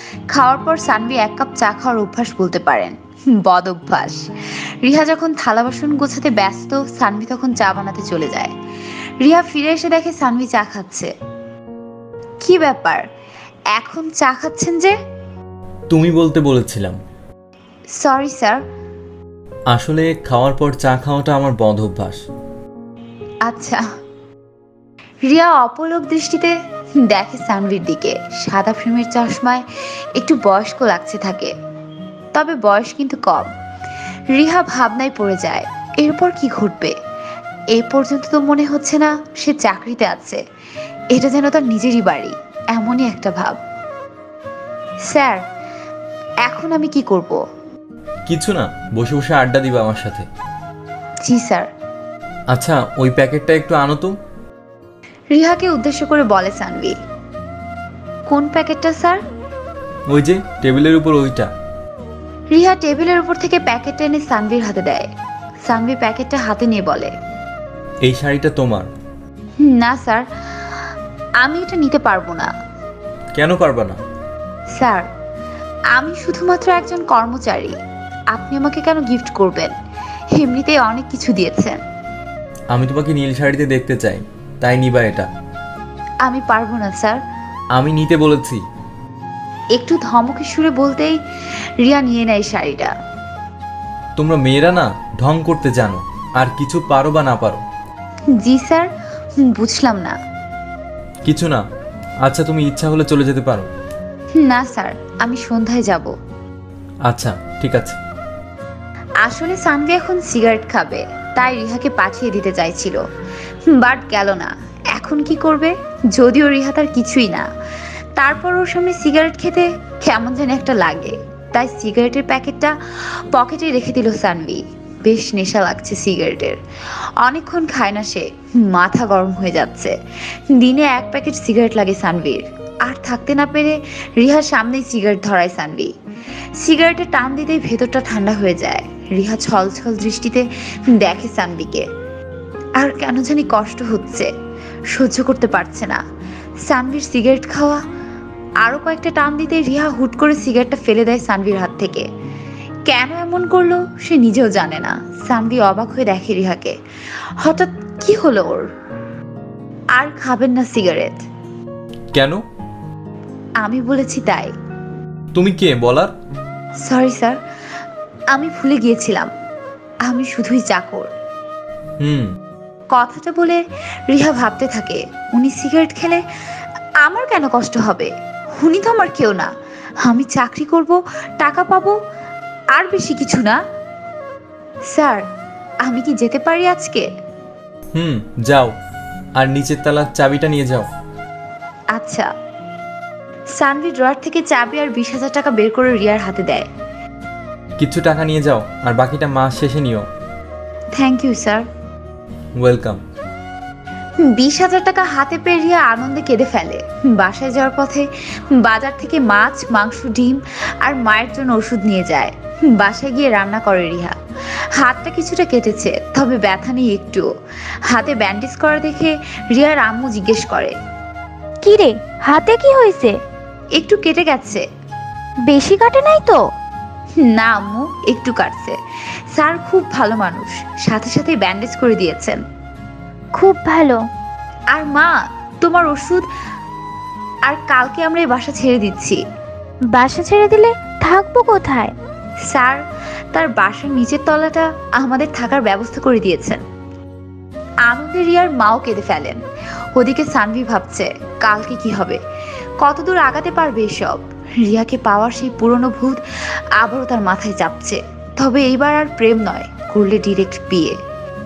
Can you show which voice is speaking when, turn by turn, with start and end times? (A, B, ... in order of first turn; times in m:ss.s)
0:00.3-0:02.9 A
0:03.4-0:04.2 A
0:04.8-0:08.5 A
0:09.2-0:11.1 A
0:12.4-0:13.0 A
0:13.7-0:14.9 A
0:15.9-0:17.0 B
0:18.0-0:18.6 A
0:19.7-0:22.2 B
0:23.5-0:23.8 A
0:25.3-0:26.5 A
0:27.0-0:29.6 A
0:30.2-0:31.5 A
0:32.3-0:33.5 A
0:34.3-0:36.9 A
0:37.7-0:40.4 A
0:41.1-0:43.6 A
0:45.1-0:45.4 A
0:46.4-0:47.4 A
0:48.3-0:50.3 B
0:51.2-0:51.7 A
0:52.5-0:54.1 B
0:55.3-0:57.0 A
0:58.3-0:59.2 A
1:00.1-1:01.5 B
1:02.5-1:05.1 A
1:05.7-1:07.1 A
1:08.0-1:08.9 B
1:09.6-1:10.2 A
1:11.4-1:12.5 A
1:13.4-1:14.0 B
1:14.8-1:15.1 A
1:15.9-1:17.8 A
1:18.3-1:19.7 A
1:20.4-1:21.8 A
1:22.7-1:25.3 B
1:26.2-1:27.2 A
1:27.7-1:28.6 B
1:29.8-1:31.2 A
1:31.8-1:32.9 A
1:34.2-1:37.6 B
1:38.4-1:38.9 A
1:39.4-1:40.1 A
1:41.2-1:41.6 B
1:42.2-1:43.7 B
1:44.4-1:46.1 A
1:47.1-1:48.0 B
1:49.2-1:53.0 A
1:53.7-1:57.4 A
1:58.2-2:02.7 A
2:03.3-2:06.6 A
2:07.2-2:09.9 A
2:10.5-2:15.9 A
2:16.6-2:21.8 A
2:22.8-2:24.3 A
2:24.9-2:26.0 A
2:26.7-2:27.8 A
2:28.6-2:32.0 A
2:32.9-2:36.7 A
2:37.4-2:38.6 A
2:40.0-2:41.2 A
2:43.6-2:44.5 A
2:45.3-2:46.1 B
2:46.8-2:47.4 A
2:48.3-2:49.3 A
2:50.1-2:51.1 A
2:52.0-2:52.3 B
2:52.9-2:56.2 A
2:57.0-2:59.5 A
3:00.0-3:02.0 A
3:02.7-3:03.6 A
3:04.9-3:05.2 A
3:05.8-3:07.1 A
3:07.9-3:08.7 B
3:09.4-3:10.9 B
3:11.9-3:12.3 A
3:13.6-3:16.7 A
3:17.8-3:20.0 B
3:21.0-3:21.6 A
3:22.6-3:23.0 B
3:24.2-3:28.0 A
3:28.6-3:34.2 A
3:34.8-3:37.2 A
3:37.9-3:40.7 A
3:41.6-3:43.1 C
3:43.8-3:44.6 A
3:45.5-3:46.4 C
3:47.2-3:48.8 A
3:49.4-3:52.4 A
3:53.4-3:54.0 C
3:54.7-3:55.1 A
3:55.6-3:56.2 A
3:57.5-3:59.2 A
3:59.9-4:01.9 C
4:02.5-4:02.8 A
4:03.3-4:06.6 A
4:07.9-4:09.4 A
4:09.9-4:12.2 A
4:12.8-4:16.2 A
4:16.8-4:21.0 A